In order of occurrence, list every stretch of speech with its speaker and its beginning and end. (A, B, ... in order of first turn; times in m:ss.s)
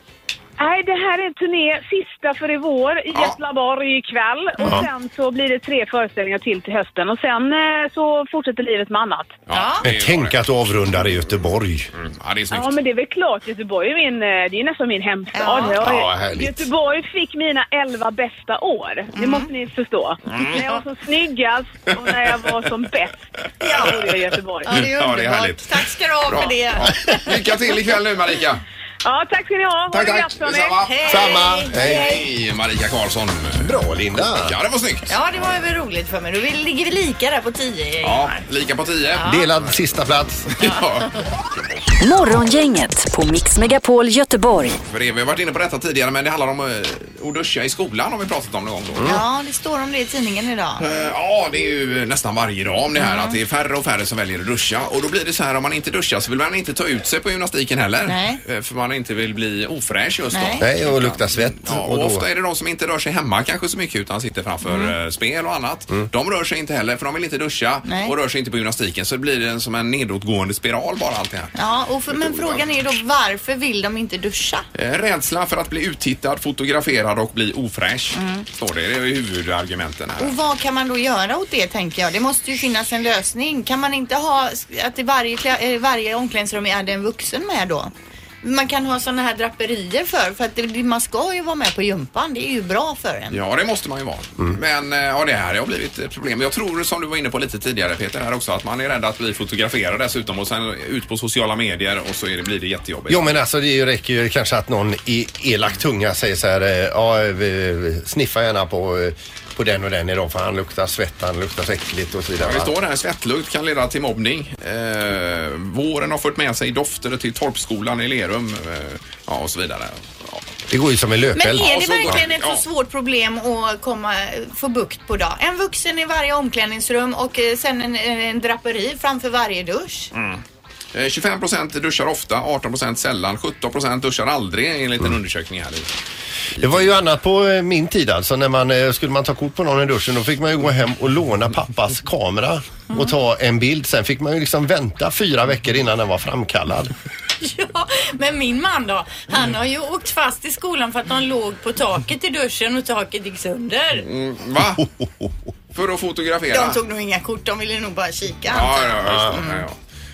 0:00.6-0:09.4 A
0:04.6-0:04.9 B
0:09.5-0:10.4 C
0:09.5-0:09.8 D
0:09.8-0:11.9 B
0:12.0-0:12.7 C
0:12.5-0:24.8 A
0:15.3-0:15.8 D
0:15.6-0:16.7 B
0:19.1-0:19.5 D
0:20.3-0:20.5 C
0:20.5-0:20.8 D
0:23.6-0:24.0 D
0:24.6-0:27.4 D
0:24.7-0:25.7 C
0:26.2-0:28.6 C
0:29.0-0:32.2 A
0:29.9-0:33.7 C
0:30.8-0:31.8 D
0:31.1-0:32.1 B
0:33.6-0:34.6 B
0:34.4-0:35.1 C
0:35.1-0:38.4 D
0:38.0-0:39.8 C
0:39.2-0:39.5 D
0:39.2-0:40.5 B
0:40.5-0:41.1 C
0:42.0-0:44.8 E
0:44.8-0:49.2 C
0:49.0-0:50.8 D
0:50.8-1:11.5 C
0:53.0-0:53.4 D
0:58.1-0:58.4 D
1:00.3-1:00.6 D
1:00.6-1:02.2 B
1:04.7-1:04.9 D
1:07.8-1:08.1 D
1:11.5-1:14.6 D
1:12.1-1:12.6 C
1:14.7-1:20.3 C
1:18.1-1:18.4 D
1:20.2-1:33.4 D
1:33.3-1:43.3 C
1:43.1-1:52.7 B
1:52.4-2:00.4 C
2:00.7-2:02.2 B
2:01.4-2:10.1 D
2:01.6-2:02.6 C
2:10.1-2:10.4 C
2:10.9-2:15.9 C
2:16.6-2:16.8 C
2:16.6-2:26.9 B
2:27.4-2:34.1 D
2:34.0-2:34.9 C
2:35.7-2:36.8 C
2:36.5-2:39.6 D
2:38.5-2:39.8 C
2:39.1-2:39.4 B